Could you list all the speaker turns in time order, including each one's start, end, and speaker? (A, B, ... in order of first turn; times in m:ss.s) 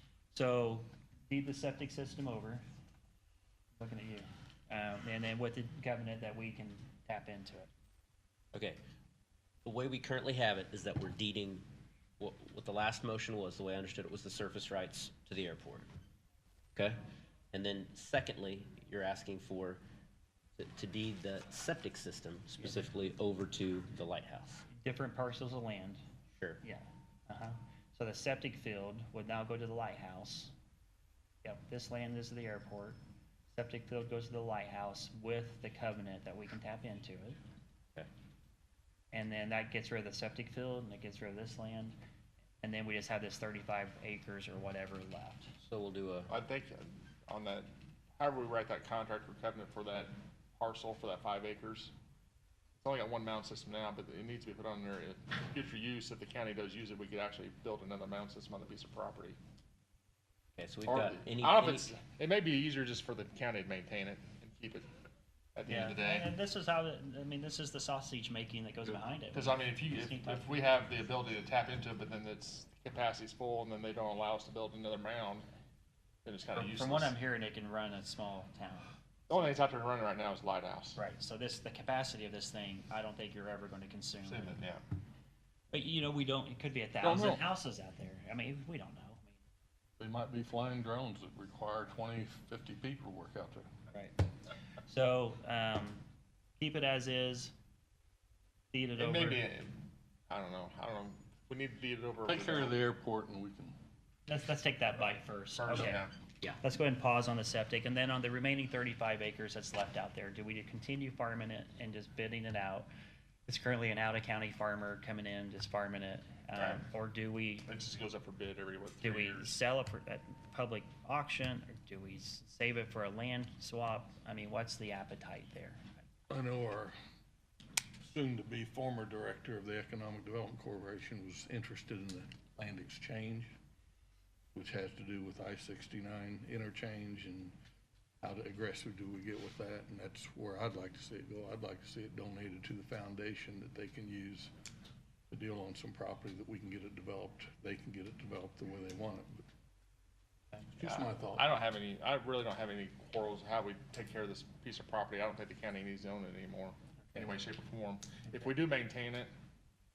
0:00.3-0:02.6 A
0:03.8-0:07.7 A
0:08.5-0:08.8 B
0:09.6-0:11.6 B
0:12.2-0:15.9 B
0:17.5-0:19.8 B
0:20.6-0:24.6 B
0:24.7-0:26.0 A
0:26.3-0:26.6 B
0:26.6-0:30.5 A
0:31.4-0:33.0 A
0:33.5-0:37.4 A
0:39.1-0:42.0 A
0:42.6-0:45.5 A
0:45.6-0:46.3 B
0:46.3-0:51.9 C
0:52.8-0:59.4 C
1:00.6-1:01.9 B
1:00.8-1:04.9 C
1:05.5-1:06.3 C
1:05.7-1:10.9 A
1:09.3-1:15.4 C
1:16.2-1:17.1 C
1:16.5-1:18.9 A
1:19.3-1:21.0 C
1:21.0-1:24.6 A
1:24.2-1:24.8 C
1:25.7-1:29.4 A
1:27.0-1:27.4 D
1:30.0-1:33.7 D
1:34.9-1:36.0 A
1:36.6-1:37.5 A
1:38.7-1:39.4 A
1:39.0-1:42.8 C
1:42.3-1:43.8 D
1:44.3-1:46.0 A
1:45.6-1:46.1 C
1:46.6-1:52.9 A
1:53.5-1:57.7 A
1:56.6-1:56.8 C
1:57.7-1:59.6 C
1:59.0-2:05.9 A
2:06.3-2:06.9 D
2:08.1-2:13.5 D
2:14.5-2:17.6 D
2:18.2-2:24.5 D
2:25.3-2:29.4 D
2:30.8-2:31.4 D
2:30.8-2:39.3 C